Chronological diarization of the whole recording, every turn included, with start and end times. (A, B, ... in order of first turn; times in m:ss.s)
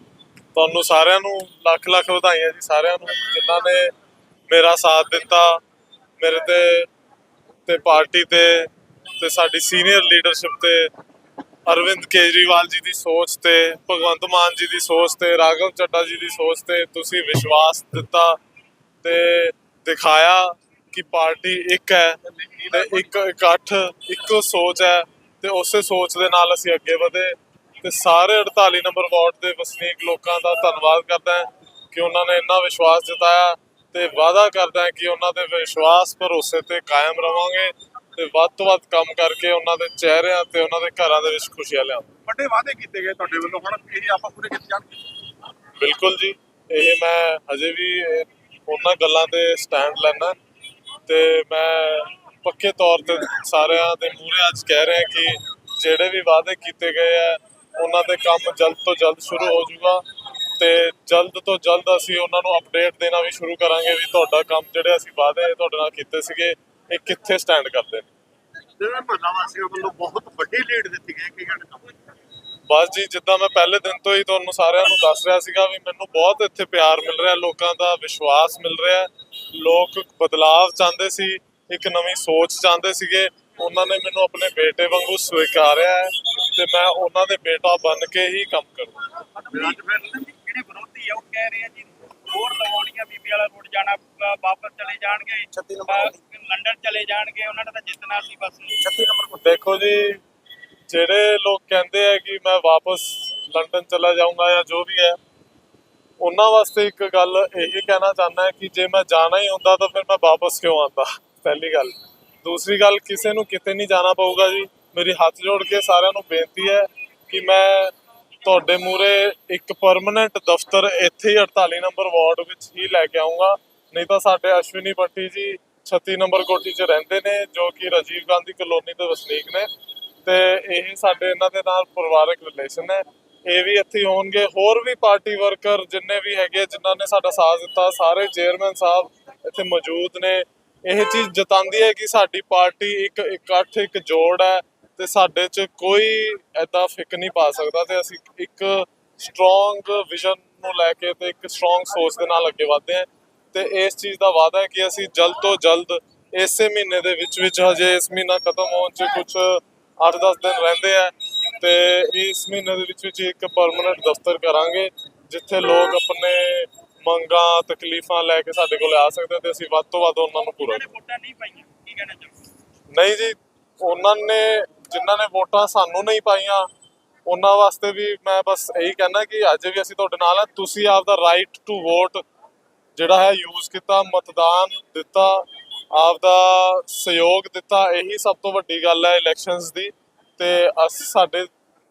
0:00.5-0:03.9 A
0:04.5-0:05.6 A
0:06.2-0:06.9 A
0:07.7-0:10.9 A
0:11.7-0:18.4 A
0:19.0-0:22.2 A
0:22.4-0:22.9 B
0:22.7-0:42.1 A
0:42.3-0:45.0 B
0:45.8-0:50.4 A
0:51.1-1:00.0 A
1:00.6-1:08.1 A
1:08.8-1:11.9 B
1:12.7-1:29.0 A
1:29.4-1:38.8 C
1:29.5-1:30.3 B
1:35.5-1:36.1 B
1:38.8-1:39.4 B
1:39.4-1:40.2 A
1:40.9-1:45.2 A
1:46.2-2:09.7 A
2:10.2-2:50.9 A
2:50.6-2:52.4 C
2:52.9-2:56.7 A
2:57.3-3:02.2 A
3:03.0-3:11.5 A